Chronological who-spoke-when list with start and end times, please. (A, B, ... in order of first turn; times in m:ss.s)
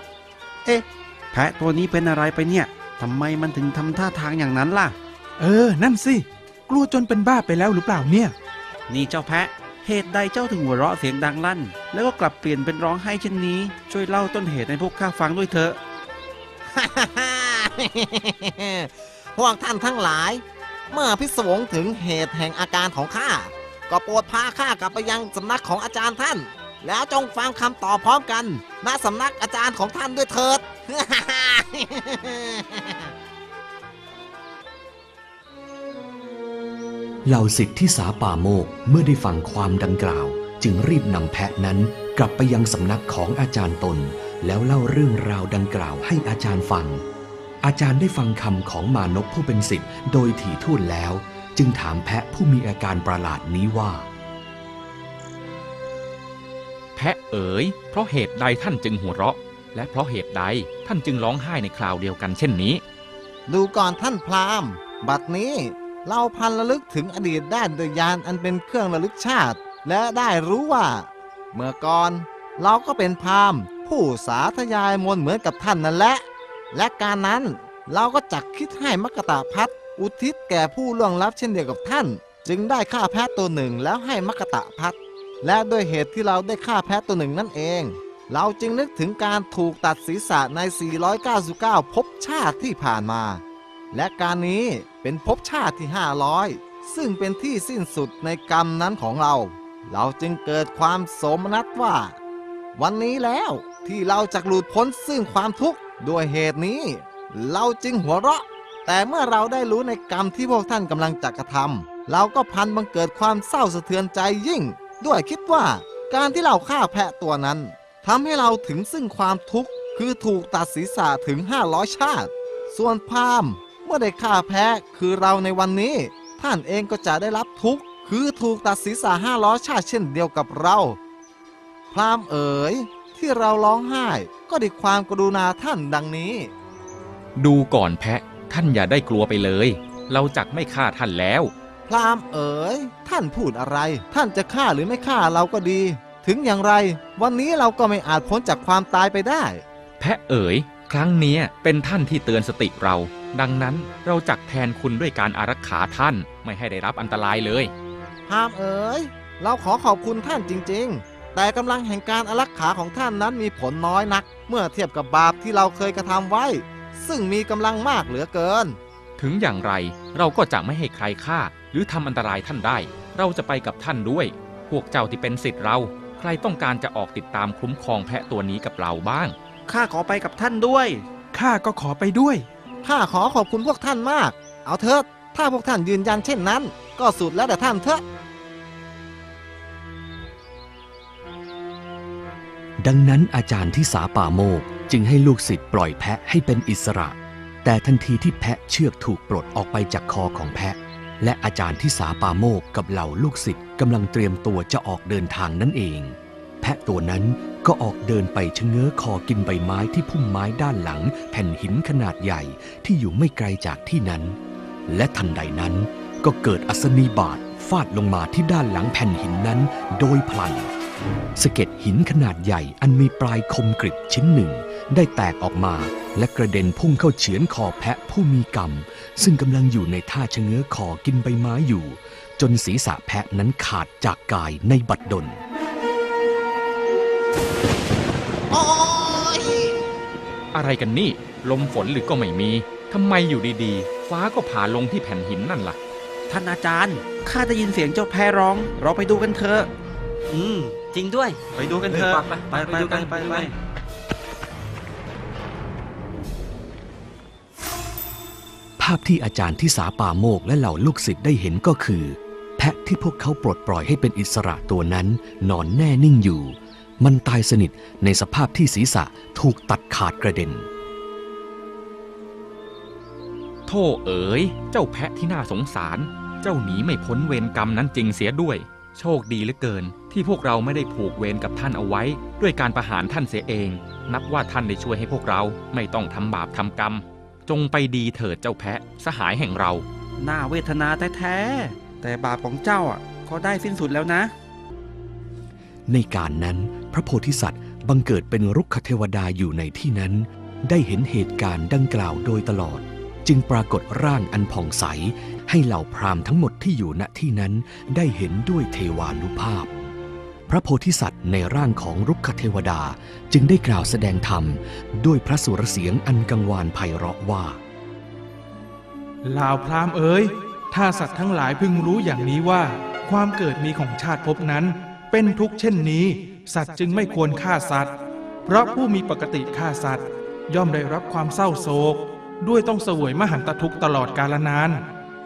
0:00.6-0:05.0 A
0:05.4-0:08.3 B
0:08.9-0:15.8 A
0:16.7-0:33.1 C
0:37.2-0:47.0 D
0:47.6-0:54.1 D
0:57.0-1:02.8 E
1:03.5-1:42.2 C
1:42.8-2:11.0 C
2:11.9-2:16.5 C
2:17.4-2:21.5 E
2:21.9-2:29.6 C
2:30.0-2:37.7 E
2:38.3-2:48.8 C
2:49.2-2:59.3 E
2:59.7-3:01.0 A
3:01.3-3:02.4 B
3:02.8-3:08.0 C
3:12.8-3:34.4 D
3:34.9-3:40.7 D
3:41.4-3:55.4 D
3:58.5-3:59.8 C
4:00.5-4:05.8 E
4:06.3-4:09.7 A
4:10.3-4:13.5 F
4:11.5-4:13.5 A
4:18.8-4:30.7 D
4:33.7-4:49.8 E
4:50.2-4:54.3 A
4:55.9-5:09.9 D
5:10.5-5:17.6 D
5:19.2-5:27.9 B
5:28.4-5:34.8 B